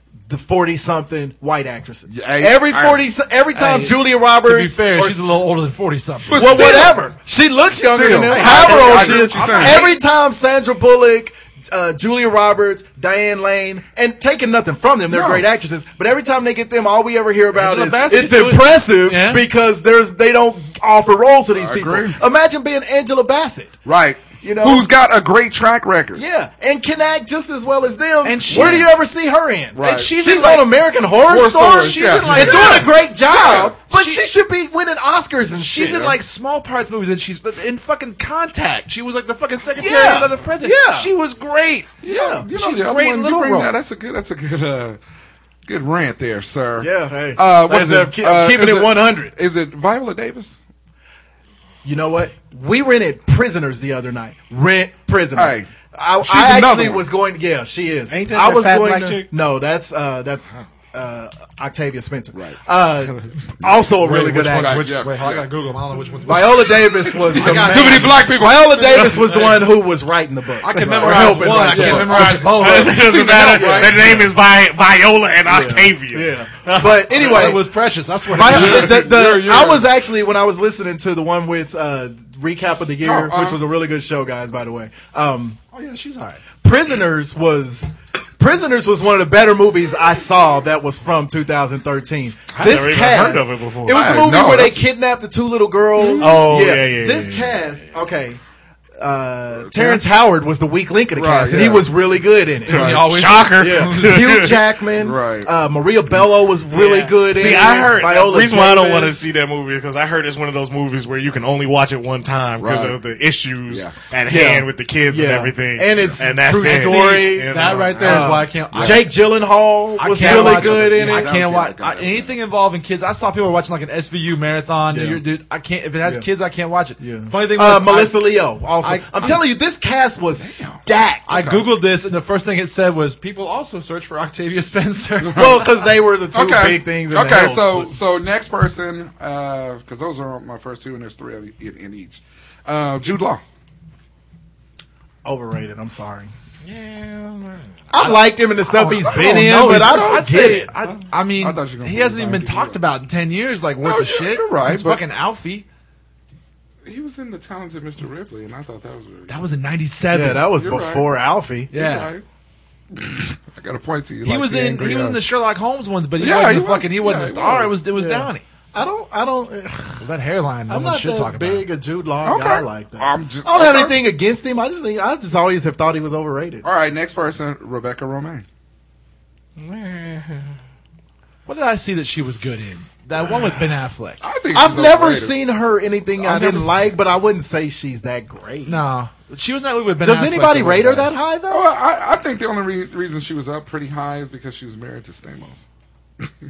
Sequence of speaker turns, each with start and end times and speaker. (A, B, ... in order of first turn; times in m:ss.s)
0:00.3-0:05.4 A
0:02.1-0:03.0 B
0:03.5-0:06.8 C
0:06.3-0:07.1 B
0:06.4-0:23.8 A
0:07.9-0:09.9 B
0:08.3-0:09.9 C
0:15.1-0:15.5 B
0:17.5-0:19.4 C
0:21.5-0:22.2 B
0:23.8-0:26.2 B
0:24.4-0:24.9 A
0:26.2-0:36.1 A
0:28.2-0:28.9 C
0:28.5-0:28.9 B
0:29.7-0:30.2 B
0:29.8-0:30.7 C
0:31.2-0:33.8 B
0:31.5-0:32.9 C
0:33.9-0:34.2 C
0:35.6-0:41.9 C
0:35.8-0:36.1 B
0:39.8-0:41.1 A
0:42.0-0:45.0 B
0:42.0-0:42.5 A
0:42.5-0:43.8 C
0:45.7-0:50.6 B
0:46.8-0:49.3 A
0:51.8-1:05.0 A
0:55.3-0:55.7 B
0:56.2-0:57.1 B
0:58.1-0:59.3 D
1:03.6-1:05.5 B
1:04.0-1:06.8 C
1:06.3-1:12.5 A
1:07.3-1:08.2 C
1:07.3-1:09.5 B
1:10.6-1:13.8 C
1:10.7-1:14.3 B
1:12.2-1:17.4 D
1:13.6-1:14.1 A
1:15.5-1:17.7 A
1:17.2-1:19.0 C
1:18.3-1:25.6 A
1:18.4-1:19.9 B
1:23.0-1:23.6 B
1:25.7-1:26.4 C
1:26.6-1:38.4 A
1:32.5-1:34.0 D
1:33.9-1:34.9 B
1:36.0-1:36.4 B
1:36.2-1:37.6 D
1:39.0-1:43.1 A
1:39.5-1:40.1 B
1:41.1-1:41.9 B
1:42.7-1:43.2 B
1:42.7-1:44.2 C
1:42.8-1:44.6 D
1:43.6-1:49.3 A
1:45.0-1:45.5 B
1:46.7-1:58.3 D
1:52.6-1:53.0 B
1:53.7-1:53.9 B
1:54.3-2:01.3 A
1:56.6-1:59.1 C
1:58.7-1:59.1 B
2:00.0-2:09.4 C
2:00.1-2:02.3 B
2:04.9-2:05.2 A
2:07.0-2:11.6 A
2:10.4-2:10.8 B
2:11.3-2:15.7 C
2:11.3-2:11.6 B
2:15.2-2:15.6 B
2:15.3-2:17.9 A
2:16.3-2:23.4 B
2:25.2-2:26.3 A
2:26.6-2:27.7 D
2:27.9-2:30.7 A
2:28.0-2:35.7 C
2:28.8-2:30.2 B
2:31.4-2:32.8 B
2:33.8-2:35.0 B
2:36.8-2:39.4 B
2:39.3-2:40.5 C
2:40.1-2:41.7 A
2:40.6-2:41.2 B
2:41.7-2:42.1 C
2:41.7-2:42.2 B
2:42.9-2:45.2 B
2:44.2-2:48.5 C
2:46.2-2:47.8 B
2:48.0-2:50.0 A
2:50.0-2:51.7 C
2:50.7-2:56.6 A
2:52.2-2:54.0 B
2:56.6-2:58.4 B
2:59.6-3:00.5 D
3:01.5-3:04.2 C
3:04.2-3:05.4 B
3:04.5-3:08.8 A
3:06.2-3:06.7 C
3:08.6-3:11.1 C
3:10.0-3:11.7 A
3:11.5-3:15.6 B